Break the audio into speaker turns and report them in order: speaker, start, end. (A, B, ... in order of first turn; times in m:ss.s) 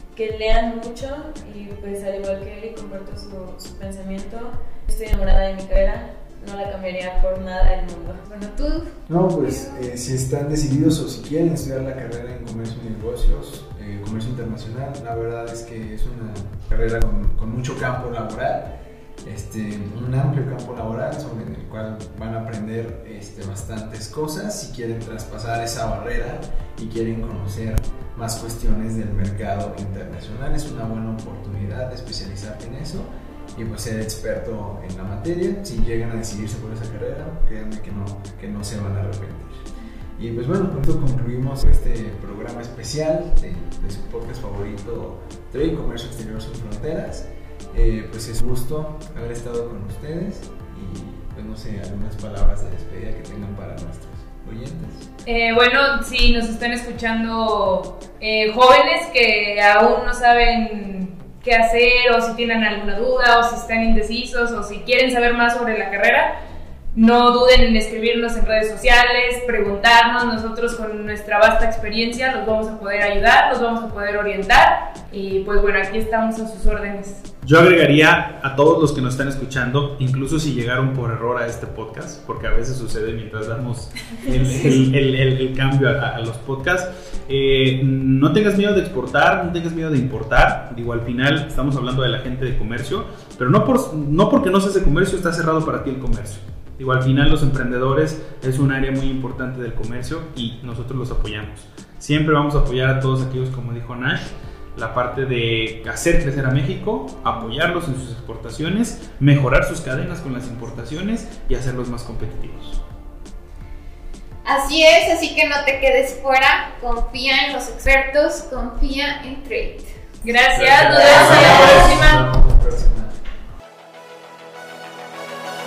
0:00.2-0:08.2 A
0:08.2-0:09.9 B
0:09.1-0:39.7 C
0:40.2-0:55.1 C
0:55.3-1:06.4 D
1:06.9-1:17.3 D
1:17.4-1:52.8 E
1:24.3-1:24.7 D
1:54.4-2:00.0 B
2:00.2-2:02.3 D
2:00.6-2:03.2 C
2:00.7-2:00.9 E
2:01.5-2:01.8 E